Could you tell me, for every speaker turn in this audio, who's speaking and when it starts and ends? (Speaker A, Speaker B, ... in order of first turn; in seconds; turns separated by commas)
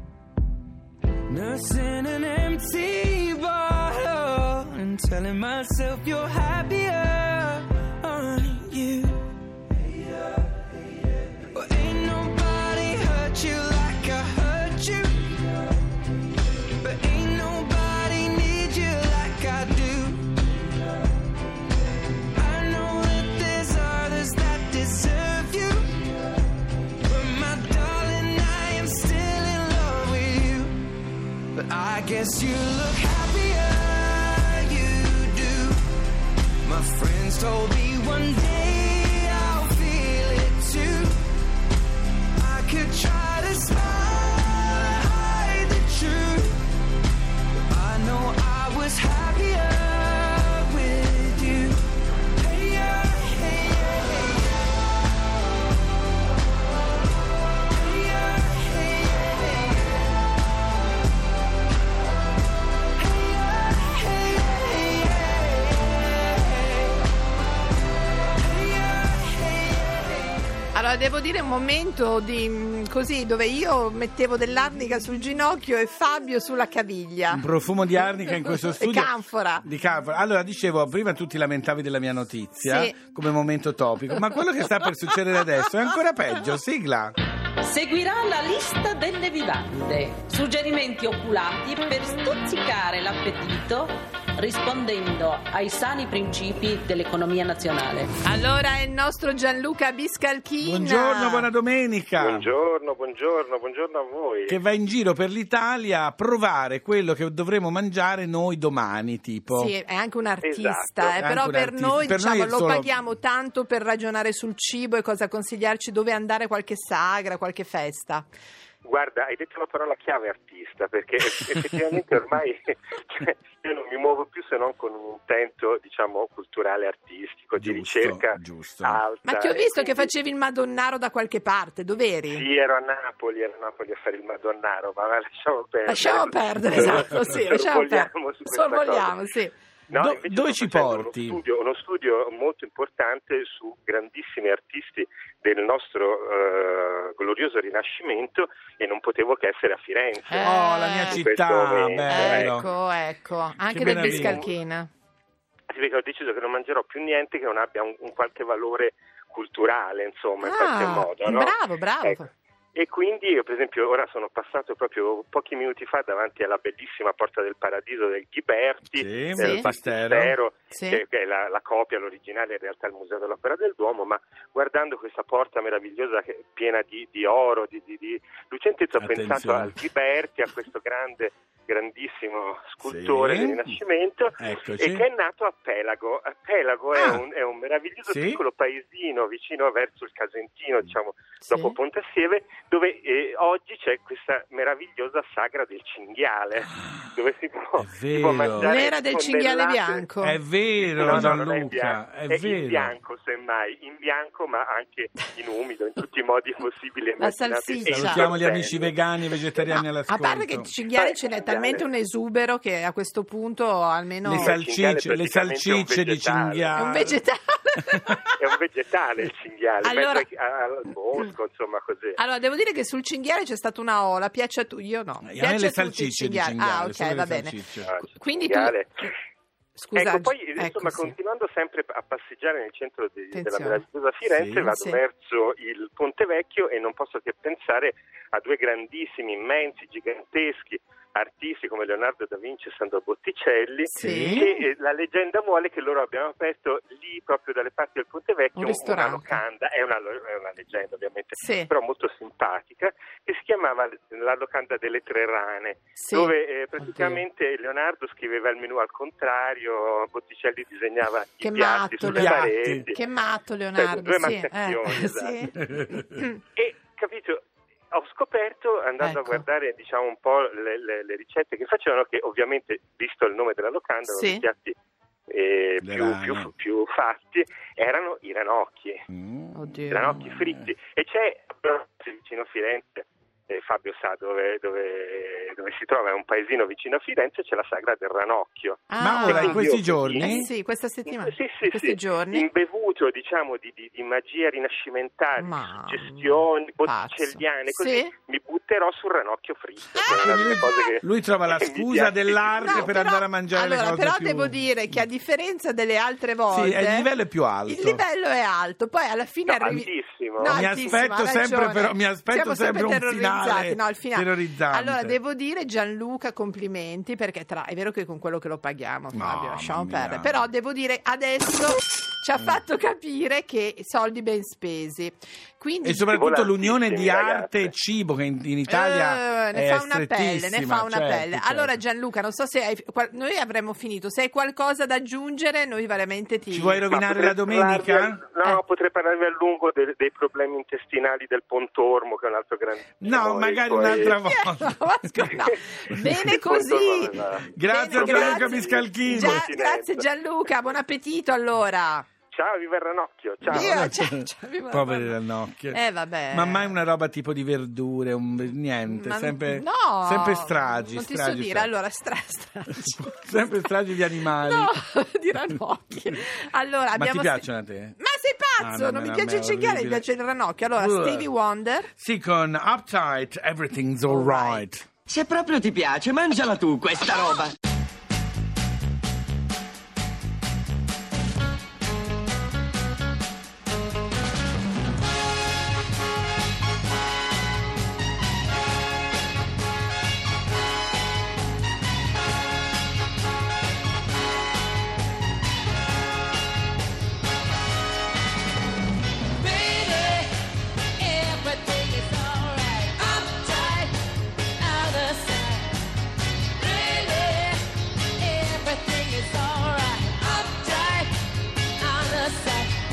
Speaker A: 1.3-9.3, Speaker A: 11.5-15.6, Speaker A: 16.8-20.4, Speaker A: 22.3-26.1, Speaker A: 27.0-30.8, Speaker A: 31.5-35.8, Speaker A: 36.6-41.2, Speaker A: 42.4-46.6, Speaker A: 47.6-51.8, Speaker A: 52.4-54.6, Speaker A: 57.7-59.9, Speaker A: 63.0-66.8, Speaker A: 68.4-70.2, Speaker B: 70.7-77.4, Speaker C: 77.3-87.1, Speaker B: 78.8-79.6, Speaker B: 82.6-82.9, Speaker D: 87.6-98.1, Speaker B: 98.2-101.5, Speaker C: 100.6-102.5, Speaker E: 102.2-104.6, Speaker C: 104.5-109.7, Speaker B: 109.5-118.2, Speaker E: 110.4-111.2, Speaker C: 111.2-112.9, Speaker E: 118.8-130.1, Speaker C: 127.6-129.0, Speaker B: 129.2-132.4, Speaker E: 132.3-139.2, Speaker B: 135.8-139.5, Speaker E: 139.9-150.4, Speaker C: 139.9-141.4, Speaker B: 150.3-151.2, Speaker C: 150.4-152.7, Speaker E: 151.1-152.7, Speaker B: 152.1-154.9, Speaker C: 153.7-154.4, Speaker E: 153.8-154.5, Speaker E: 155.7-162.2, Speaker B: 160.4-162.3, Speaker E: 162.8-200.1, Speaker C: 168.9-170.3, Speaker B: 169.4-169.7, Speaker B: 170.7-171.0, Speaker C: 179.0-179.8, Speaker C: 182.8-183.8, Speaker C: 184.4-185.1, Speaker C: 186.9-187.2, Speaker C: 188.1-188.4, Speaker B: 191.5-191.8, Speaker C: 197.8-198.8, Speaker B: 198.6-200.4, Speaker C: 200.2-202.9, Speaker E: 200.8-208.9, Speaker B: 207.2-208.3, Speaker C: 207.9-210.7, Speaker B: 210.1-214.6, Speaker E: 210.9-211.9, Speaker C: 214.2-217.2, Speaker E: 214.3-217.0, Speaker B: 216.7-218.4, Speaker E: 218.4-222.2, Speaker B: 219.8-220.2, Speaker B: 222.2-227.6, Speaker C: 225.2-227.9, Speaker E: 227.9-229.1, Speaker B: 228.2-228.8, Speaker B: 229.8-231.1, Speaker E: 229.9-263.0, Speaker B: 233.3-233.8, Speaker C: 234.3-234.6, Speaker B: 234.6-235.0, Speaker B: 243.9-244.6, Speaker C: 244.0-244.4, Speaker B: 248.6-249.4, Speaker B: 251.4-251.7, Speaker B: 256.0-256.3, Speaker B: 256.9-257.2, Speaker B: 261.4-266.4, Speaker C: 262.0-262.9, Speaker E: 263.8-265.5, Speaker C: 265.7-266.0, Speaker E: 266.5-274.7, Speaker B: 269.0-269.4, Speaker B: 274.1-274.4, Speaker E: 275.3-279.0, Speaker C: 275.8-276.5, Speaker C: 279.1-280.7, Speaker B: 279.5-280.1, Speaker E: 279.9-290.5, Speaker B: 288.9-292.4, Speaker C: 289.0-290.5, Speaker E: 291.1-302.9, Speaker B: 295.4-298.1, Speaker B: 299.9-300.8, Speaker C: 300.0-304.6, Speaker B: 302.6-307.1, Speaker C: 306.5-308.0, Speaker B: 307.7-326.1, Speaker E: 309.5-310.7, Speaker C: 310.4-315.2, Speaker C: 319.1-320.4, Speaker C: 325.8-331.8, Speaker E: 326.0-327.7, Speaker B: 328.7-336.8, Speaker C: 336.5-338.2, Speaker E: 336.9-344.2, Speaker C: 343.0-345.3, Speaker B: 344.0-347.1, Speaker E: 346.0-350.1, Speaker C: 347.5-349.5, Speaker B: 347.7-352.1, Speaker E: 352.3-353.9, Speaker C: 353.4-355.8, Speaker B: 353.5-355.1, Speaker B: 355.7-356.7, Speaker C: 356.3-361.7, Speaker B: 358.9-363.1, Speaker C: 362.7-364.7, Speaker B: 364.4-367.4, Speaker C: 366.9-368.0, Speaker B: 368.0-371.9, Speaker C: 368.6-370.1, Speaker C: 370.7-371.3, Speaker C: 371.9-374.9, Speaker B: 374.1-374.6, Speaker F: 375.1-377.5, Speaker D: 399.4-400.3, Speaker D: 401.0-403.9, Speaker D: 404.6-405.7, Speaker D: 406.6-407.6, Speaker D: 408.2-411.1, Speaker D: 411.8-412.7